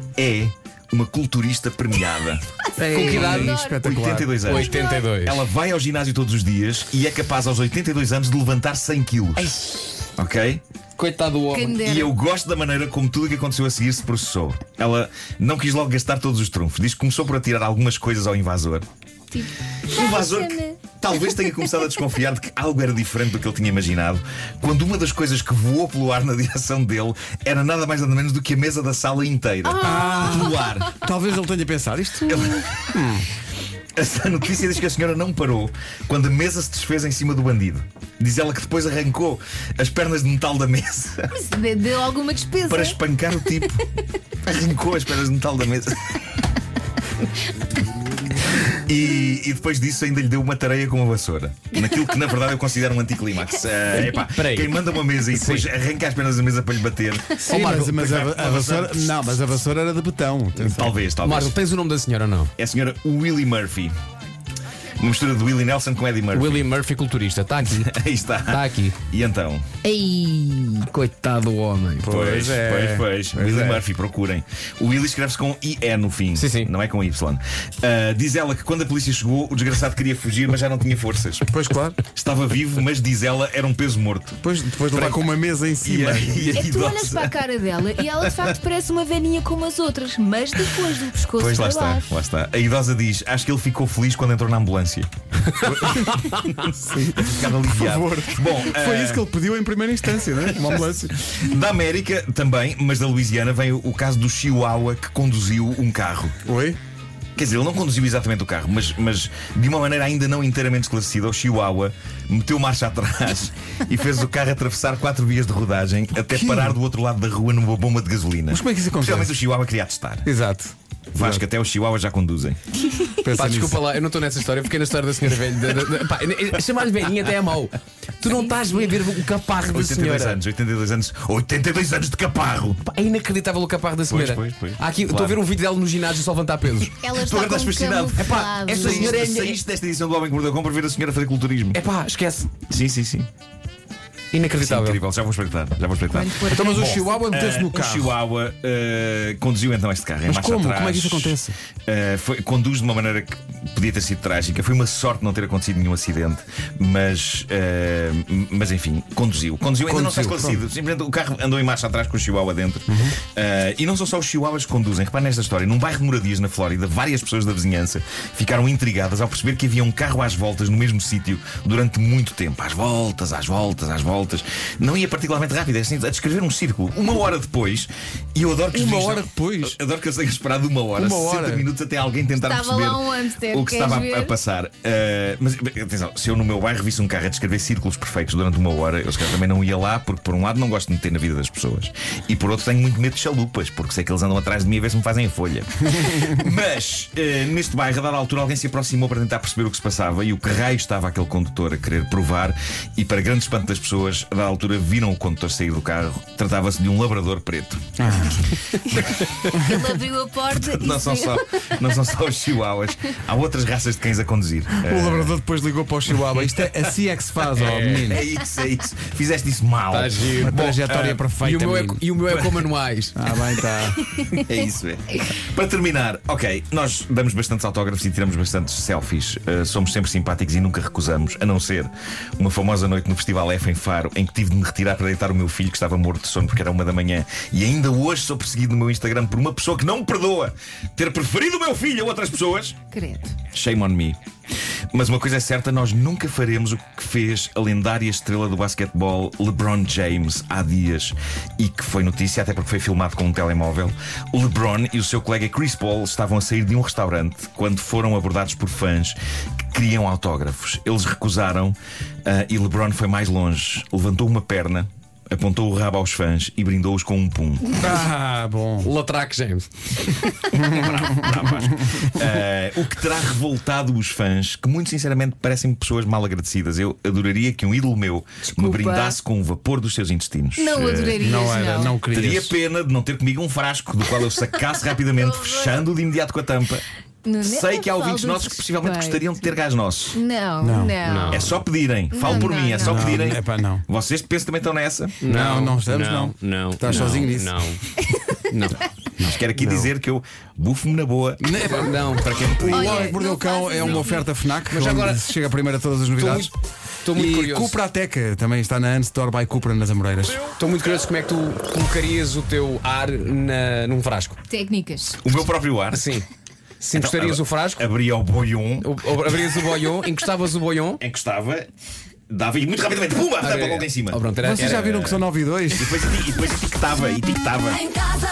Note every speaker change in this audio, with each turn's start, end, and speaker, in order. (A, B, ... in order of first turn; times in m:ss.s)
0:00.2-0:02.4 A
0:02.8-0:04.3 B
0:02.8-0:03.8 C
0:02.9-0:03.6 D
0:03.0-0:09.5 A
0:04.4-0:05.4 D
0:04.5-0:05.0 C
0:09.4-0:10.1 D
0:10.2-0:10.6 A
0:11.0-0:11.8 D
0:11.5-0:12.1 C
0:11.8-0:18.8 A
0:19.3-0:20.9 C
0:19.9-0:31.0 A
0:29.6-0:30.8 C
0:29.8-0:33.3 B
0:32.2-0:32.9 A
0:34.0-0:41.3 A
0:41.3-0:43.0 C
0:42.6-0:43.8 A
0:44.4-0:46.2 A
0:48.6-0:59.4 A
0:53.9-0:55.7 D
0:57.4-1:00.9 B
1:00.6-1:01.5 A
1:01.2-1:02.5 D
1:02.6-1:03.9 A
1:05.0-1:06.7 A
1:06.3-1:07.9 D
1:07.6-1:09.6 A
1:08.5-1:09.0 D
1:09.8-1:12.1 D
1:12.0-1:13.8 B
1:12.0-1:21.4 A
1:16.3-1:16.7 D
1:21.5-1:22.0 B
1:22.2-1:25.3 A
1:24.4-1:26.6 B
1:25.8-1:27.3 A
1:26.5-1:32.0 C
1:28.0-1:28.5 A
1:31.4-1:35.1 A
1:35.6-1:36.6 D
1:35.6-1:39.3 A
1:35.8-1:36.2 B
1:36.7-1:41.1 B
1:40.4-1:46.3 A
1:46.4-1:46.8 B
1:47.4-2:00.3 A
1:56.3-1:56.8 B
1:58.5-1:59.3 B
2:00.2-2:01.4 B
2:01.1-2:02.6 A
2:03.2-2:03.8 B
2:03.3-2:10.4 D
2:09.7-2:12.8 A
2:12.8-2:17.0 D
2:14.1-2:15.4 A
2:17.0-2:19.0 C
2:17.1-2:21.8 A
2:18.2-2:19.6 D
2:21.7-2:22.5 D
2:22.7-2:23.3 A
2:24.3-2:25.0 D
2:24.5-3:27.8 A
2:26.1-2:27.1 C
2:26.5-2:28.1 B
2:30.3-2:31.6 B
2:39.9-2:40.6 B
2:42.9-2:43.2 B
2:58.7-2:59.8 B
3:01.0-3:01.6 B
3:02.4-3:04.3 C
3:28.0-3:28.5 B
3:29.5-3:29.9 B
3:29.6-3:31.8 C
3:30.5-3:35.4 A
3:34.8-3:38.2 B
3:36.2-3:36.7 A
3:37.6-3:38.2 D
3:38.1-3:41.2 A
3:39.9-3:40.6 D
3:40.4-3:42.0 B
3:41.4-3:43.1 D
3:42.3-3:42.6 A
3:43.1-3:44.1 B
3:44.3-4:02.8 A
4:02.9-4:03.4 C
4:03.5-4:04.2 A
4:04.9-4:19.2 A
4:19.7-4:27.8 A
4:27.7-4:28.9 B
4:28.8-4:29.7 D
4:30.5-4:32.1 B
4:30.6-4:41.3 A
4:38.5-4:39.2 C
4:40.6-4:42.0 C
4:41.2-4:42.5 B
4:42.1-4:46.8 A
4:45.2-4:45.8 C
4:47.2-4:49.4 C
4:47.4-4:50.2 A
4:50.1-4:51.5 C
4:50.6-4:51.0 B
4:51.0-4:51.6 D
4:51.3-4:55.1 A
4:52.1-4:53.1 C
4:52.2-4:53.8 B
4:55.2-4:57.6 B
4:55.2-4:57.8 D
4:57.0-4:57.2 C
4:58.5-4:59.9 D
4:59.2-5:01.4 A
5:01.4-5:06.5 B
5:01.4-5:03.1 D
5:02.7-5:04.3 C
5:03.8-5:04.1 D
5:04.7-5:05.3 D
5:06.2-5:06.5 D
5:07.0-5:07.8 D
5:07.1-5:10.5 B
5:10.6-5:14.4 D
5:14.5-5:15.2 C
5:15.2-5:16.1 A
5:15.9-5:16.2 D
5:16.8-5:17.9 D
5:16.9-5:18.9 A
5:18.8-5:21.0 D
5:21.0-5:21.7 A
5:22.3-5:27.9 A
5:23.4-5:25.1 D
5:24.4-5:26.1 B